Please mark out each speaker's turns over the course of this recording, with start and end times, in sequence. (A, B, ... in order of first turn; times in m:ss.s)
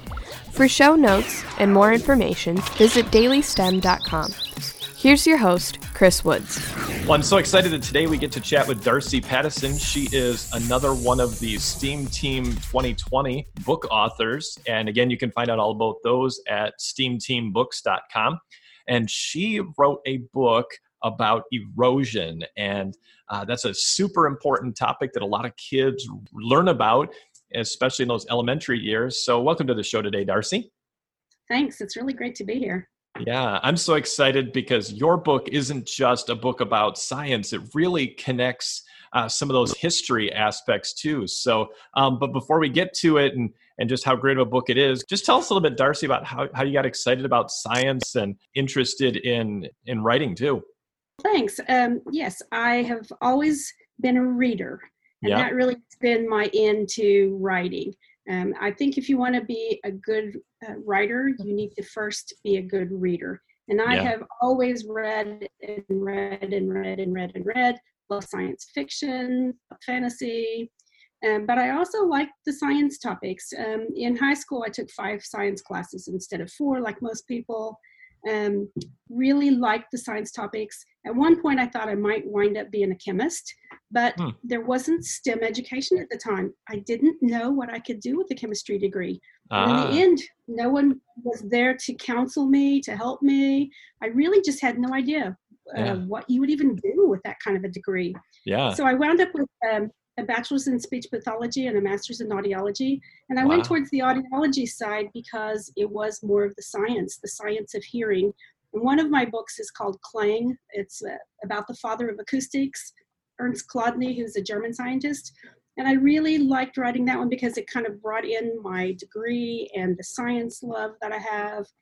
0:00.5-0:04.4 A
0:04.9-0:06.6 A
0:07.0-0:30.7 B
0:31.5-0:32.9 C
0:33.2-0:50.6 B
0:51.2-1:10.7 C
0:55.2-0:55.5 B
1:03.9-1:04.1 B
1:11.2-1:38.2 C
1:29.5-1:30.0 B
1:35.8-1:36.0 B
1:38.4-1:38.8 B
1:38.7-2:01.7 C
1:43.4-1:43.8 B